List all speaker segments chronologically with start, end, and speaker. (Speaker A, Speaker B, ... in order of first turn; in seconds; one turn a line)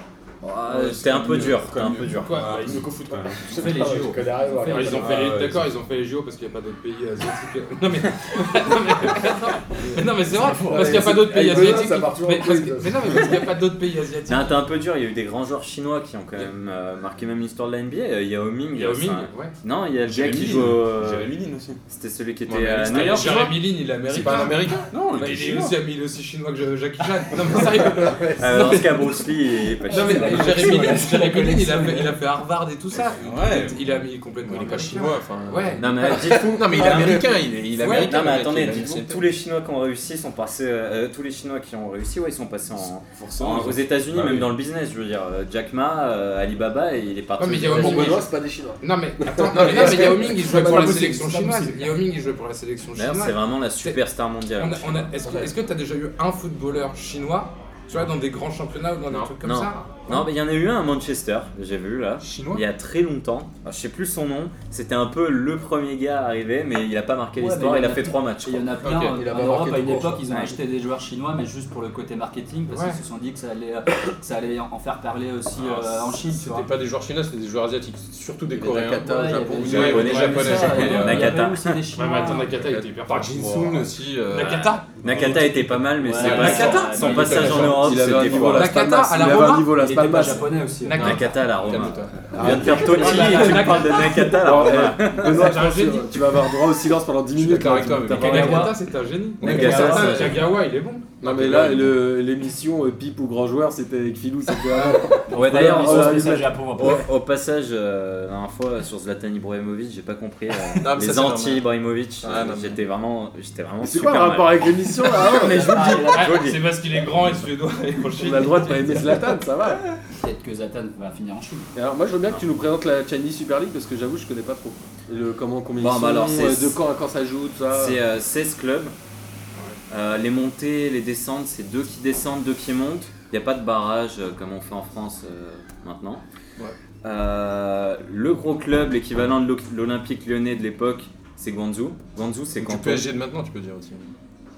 Speaker A: 0.4-2.5
Speaker B: 0.8-3.8
Speaker C: 0.9-1.6
Speaker D: 2.0-2.9
Speaker E: 3.4-5.3
Speaker F: 3.5-5.1
Speaker D: 4.7-14.6
Speaker B: 4.9-5.7
Speaker E: 10.3-13.2
Speaker A: 14.3-21.3
Speaker D: 18.7-19.5
Speaker B: 20.0-21.8
Speaker A: 21.9-23.5
Speaker C: 22.5-24.9
Speaker D: 22.9-29.2
Speaker B: 24.2-25.8
Speaker A: 28.4-30.4
Speaker F: 29.9-32.2
Speaker D: 29.9-36.3
Speaker C: 30.4-30.9
Speaker B: 33.2-33.8
Speaker C: 33.3-33.8
Speaker C: 34.4-39.2
Speaker A: 35.8-37.3
Speaker D: 36.8-37.2
Speaker D: 37.7-38.2
Speaker A: 38.0-48.2
Speaker B: 43.1-44.5
Speaker D: 47.4-54.0
Speaker E: 47.6-51.7
Speaker C: 49.6-51.7
Speaker A: 52.9-55.1
Speaker D: 54.6-60.2
Speaker A: 59.4-68.7
Speaker D: 62.2-62.6
Speaker F: 67.3-76.7
Speaker C: 68.8-69.2
Speaker E: 68.9-70.2
Speaker A: 70.3-70.5
Speaker D: 72.7-73.0
Speaker C: 75.6-81.3
Speaker E: 78.5-80.9
Speaker F: 79.0-82.6
Speaker A: 79.7-81.8
Speaker D: 81.9-83.7
Speaker C: 82.2-88.7
Speaker D: 84.3-85.3
Speaker A: 85.0-88.7
Speaker F: 86.0-88.2
Speaker D: 86.2-87.2
Speaker E: 87.6-90.5
Speaker D: 88.4-89.7
Speaker F: 89.7-91.2
Speaker D: 90.8-91.2
Speaker C: 90.9-93.0
Speaker A: 91.0-95.5
Speaker E: 92.3-98.7
Speaker D: 92.4-94.4
Speaker F: 93.1-93.5
Speaker D: 95.2-96.2
Speaker C: 97.3-98.6
Speaker F: 98.0-98.8
Speaker D: 98.1-101.1
Speaker C: 99.4-100.5
Speaker F: 99.4-100.4
Speaker A: 99.5-100.3
Speaker E: 99.6-100.0
Speaker C: 101.2-102.0
Speaker E: 101.2-106.5
Speaker D: 104.7-105.1
Speaker F: 105.3-107.1
Speaker A: 105.3-116.6
Speaker C: 110.8-111.6
Speaker E: 112.2-112.7
Speaker C: 112.2-112.7
Speaker E: 113.8-115.9
Speaker D: 115.2-119.2
Speaker F: 115.2-116.5
Speaker E: 118.1-119.8
Speaker F: 120.1-121.7
Speaker E: 121.7-128.0
Speaker A: 125.8-126.8
Speaker A: 127.7-128.9
Speaker A: 129.9-136.2
Speaker A: 137.0-143.1
Speaker C: 142.6-144.1